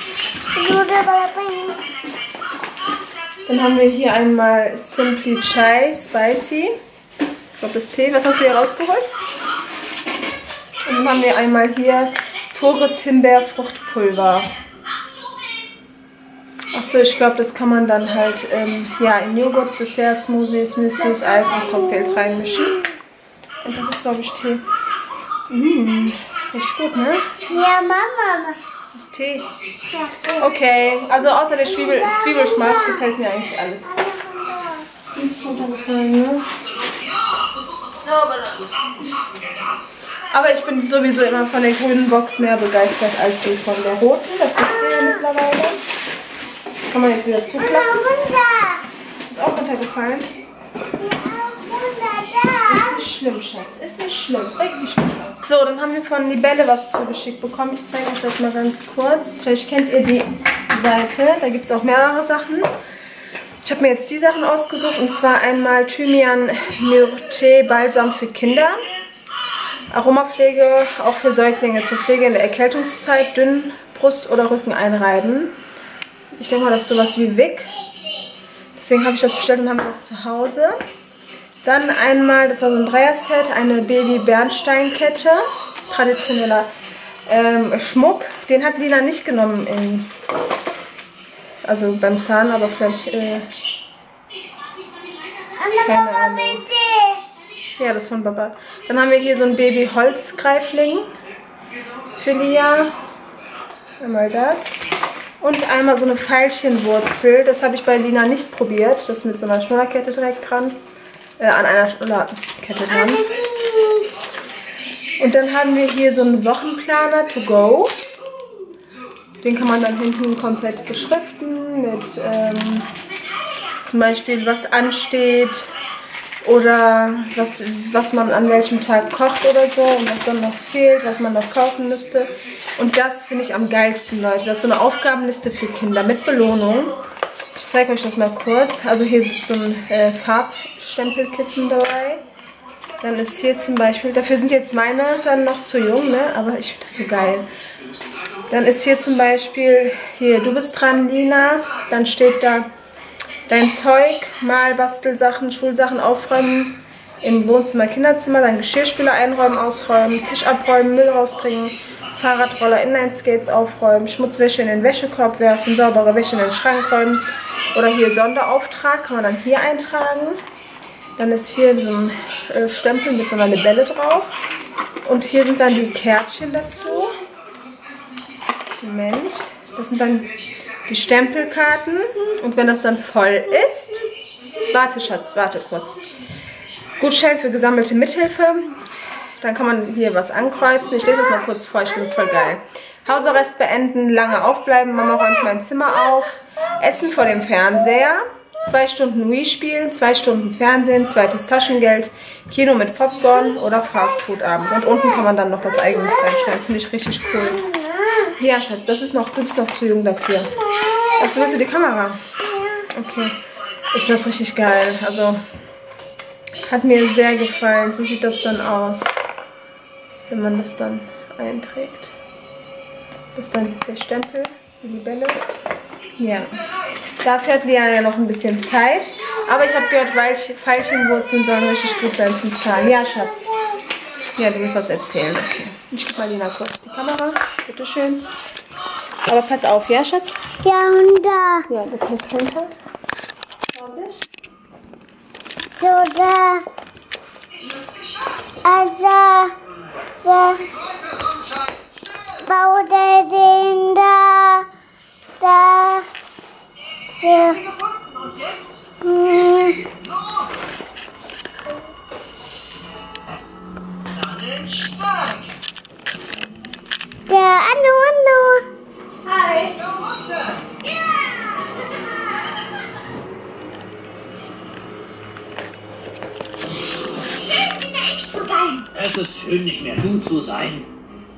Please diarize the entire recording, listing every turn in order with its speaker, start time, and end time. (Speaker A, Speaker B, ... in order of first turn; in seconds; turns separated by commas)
Speaker A: 0.5-1.9, Speaker B: 3.5-6.8, Speaker B: 7.6-9.1, Speaker B: 10.8-14.5, Speaker B: 16.7-22.8, Speaker A: 21.0-22.8, Speaker B: 23.6-24.6, Speaker B: 25.5-27.4, Speaker A: 27.4-28.6, Speaker B: 28.9-29.5, Speaker A: 29.9-30.6, Speaker B: 30.4-33.9, Speaker A: 31.6-33.1, Speaker A: 33.8-34.9, Speaker B: 35.1-36.5, Speaker B: 38.0-38.6, Speaker B: 40.3-45.8, Speaker A: 44.6-45.2, Speaker B: 46.8-48.0, Speaker A: 47.5-48.8, Speaker B: 49.2-50.3, Speaker A: 51.0-53.0, Speaker B: 52.7-62.7, Speaker B: 63.6-68.8, Speaker B: 69.9-75.5, Speaker B: 76.3-77.7, Speaker B: 78.8-80.8, Speaker B: 81.6-86.7, Speaker B: 87.3-90.2, Speaker B: 91.6-93.5, Speaker A: 95.5-97.2, Speaker B: 95.8-96.6, Speaker B: 97.8-101.1, Speaker B: 102.1-103.0, Speaker B: 104.0-104.9, Speaker B: 105.4-110.8, Speaker B: 111.4-113.2, Speaker A: 112.9-114.1, Speaker B: 115.2-118.0, Speaker B: 119.4-122.9, Speaker B: 123.8-125.7, Speaker B: 126.4-137.0, Speaker B: 137.5-142.2, Speaker B: 143.0-147.5, Speaker B: 148.5-152.7, Speaker B: 153.5-170.4, Speaker B: 171.2-174.3, Speaker B: 175.0-177.2, Speaker B: 178.8-186.1, Speaker B: 187.0-188.8, Speaker B: 189.4-207.6, Speaker A: 191.1-192.5, Speaker A: 195.0-195.5, Speaker A: 204.8-206.6, Speaker A: 207.3-208.3, Speaker B: 208.4-210.5, Speaker A: 210.5-211.6, Speaker B: 211.2-212.2, Speaker A: 212.4-212.9, Speaker B: 212.9-213.4, Speaker B: 213.9-215.4, Speaker B: 216.6-219.1, Speaker B: 220.3-222.1, Speaker B: 223.3-225.4, Speaker B: 226.2-226.6, Speaker B: 227.2-233.5, Speaker A: 232.7-233.9, Speaker B: 234.3-238.2, Speaker B: 239.3-240.4, Speaker A: 240.6-241.7, Speaker B: 241.7-242.7, Speaker B: 243.7-244.2, Speaker A: 245.7-246.7, Speaker A: 248.5-249.6, Speaker A: 250.2-250.8, Speaker A: 252.4-254.7, Speaker A: 255.4-256.1, Speaker A: 257.2-257.7, Speaker A: 259.0-259.9, Speaker A: 267.3-268.7, Speaker A: 269.3-269.9, Speaker A: 270.7-272.6, Speaker A: 277.2-278.9, Speaker C: 278.9-280.9